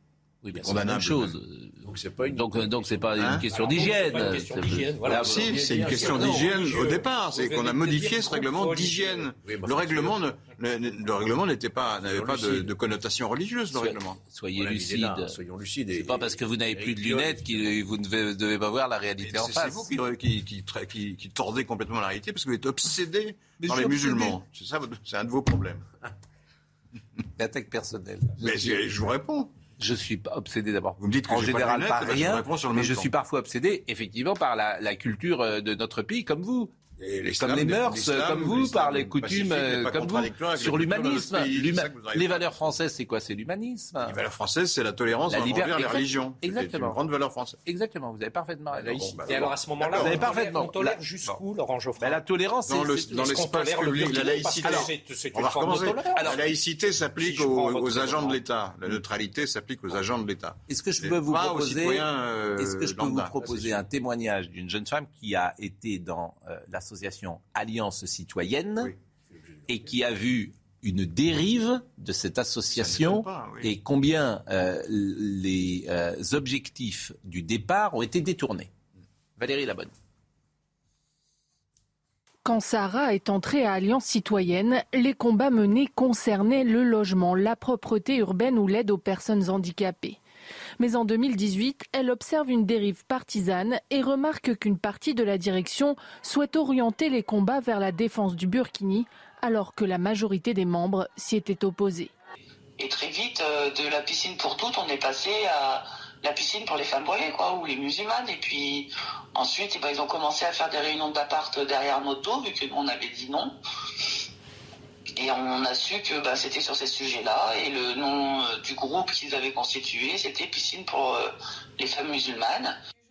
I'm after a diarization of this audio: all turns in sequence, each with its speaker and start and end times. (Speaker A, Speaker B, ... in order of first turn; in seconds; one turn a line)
Speaker A: 0.4-6.8
Speaker B: 0.5-1.4
Speaker C: 1.8-4.0
Speaker B: 3.1-3.4
Speaker D: 3.5-9.3
Speaker B: 5.0-14.2
Speaker C: 5.5-6.8
Speaker C: 9.4-10.2
Speaker C: 12.1-12.7
Speaker A: 13.7-15.4
Speaker C: 14.5-17.8
Speaker A: 15.9-19.9
Speaker B: 19.2-25.8
Speaker A: 23.6-24.4
Speaker A: 27.4-28.8
Speaker B: 28.4-29.5
Speaker A: 29.8-36.7
Speaker B: 31.0-33.1
Speaker B: 37.0-42.7
Speaker A: 37.4-44.2
Speaker B: 44.0-47.6
Speaker A: 45.3-47.0
Speaker A: 47.6-51.4
Speaker C: 48.7-49.5
Speaker B: 49.2-50.1
Speaker D: 49.2-52.2
Speaker A: 52.0-54.8
Speaker B: 52.7-63.8
Speaker D: 53.1-56.4
Speaker A: 60.7-68.9
Speaker A: 69.7-78.7
Speaker B: 72.7-73.7
Speaker A: 79.4-79.9
Speaker E: 82.4-90.2
Speaker E: 90.8-102.1
Speaker F: 102.8-113.5
Speaker F: 115.2-122.7